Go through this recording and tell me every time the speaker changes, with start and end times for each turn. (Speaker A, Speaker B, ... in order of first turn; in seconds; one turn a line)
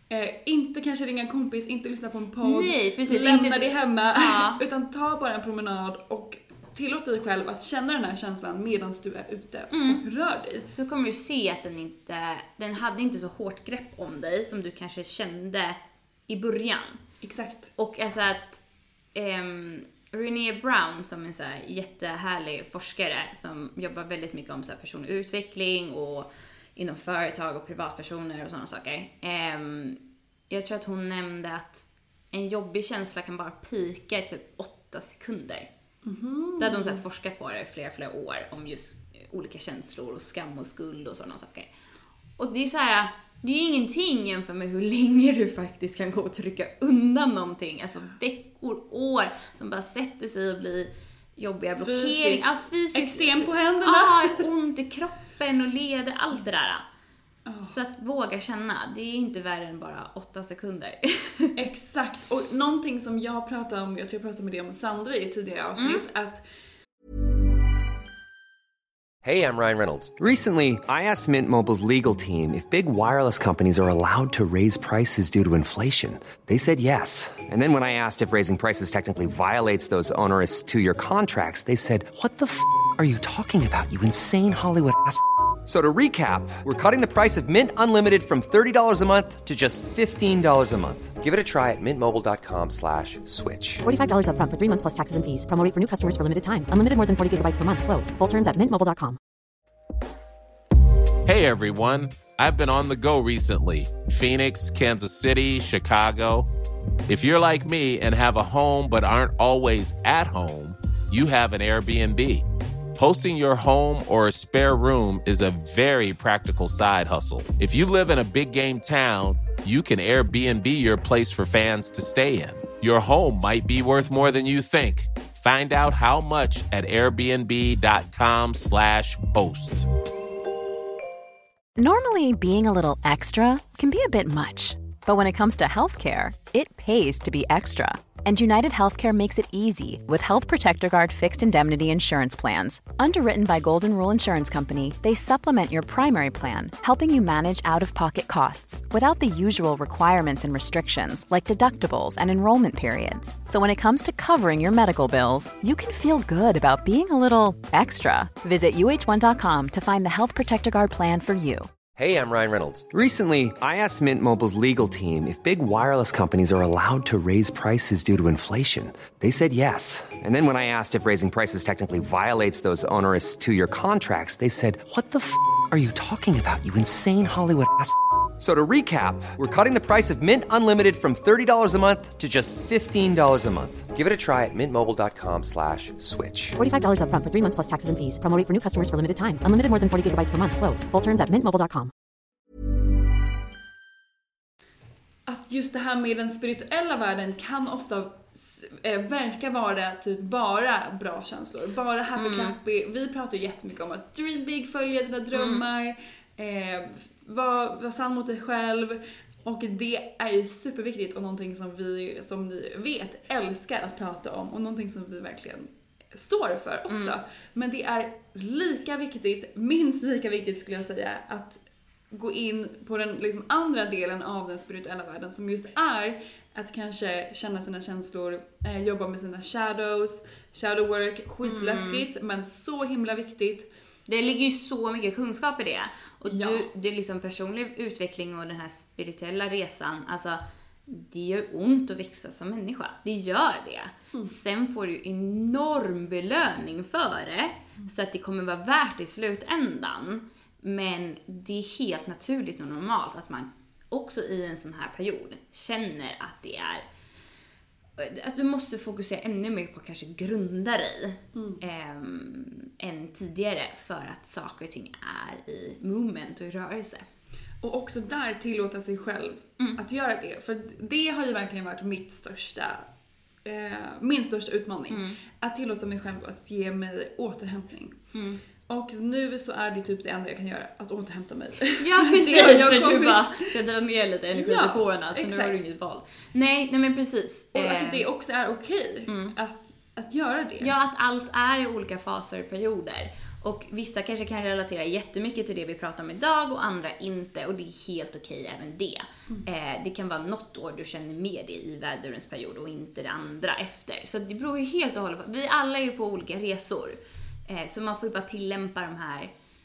Speaker A: 0.1-10.7
Speaker B: 2.4-4.6
Speaker B: 9.7-10.0
Speaker B: 10.7-17.0
Speaker A: 17.2-17.7
Speaker B: 17.8-18.6
Speaker B: 19.1-35.7
Speaker A: 36.0-37.0
Speaker B: 36.6-41.7
Speaker B: 42.4-56.8
Speaker A: 51.8-54.4
Speaker A: 57.5-57.7
Speaker B: 57.6-61.5
Speaker A: 61.5-66.4
Speaker B: 65.8-66.0
Speaker C: 69.2-93.8
Speaker D: 93.8-99.2
Speaker E: 101.2-106.5
Speaker E: 107.1-112.4
Speaker E: 113.0-129.9
Speaker F: 131.8-161.7
Speaker C: 162.0-186.6
Speaker D: 186.6-191.9
Speaker A: 195.3-233.7
Speaker B: 202.2-202.6
Speaker B: 205.3-205.6
Speaker B: 216.9-217.1
Speaker B: 231.4-232.0
Speaker B: 234.1-256.8
Speaker A: 236.2-236.7
Speaker B: 258.0-267.0
Speaker A: 261.3-261.6
Speaker A: 267.6-272.9
Speaker A: 273.4-278.0
Speaker B: 274.9-275.2
Speaker B: 278.1-278.4
Speaker A: 278.7-283.5
Speaker B: 281.7-288.1
Speaker A: 284.3-285.6
Speaker A: 287.5-290.7
Speaker B: 289.1-289.3
Speaker B: 290.6-309.3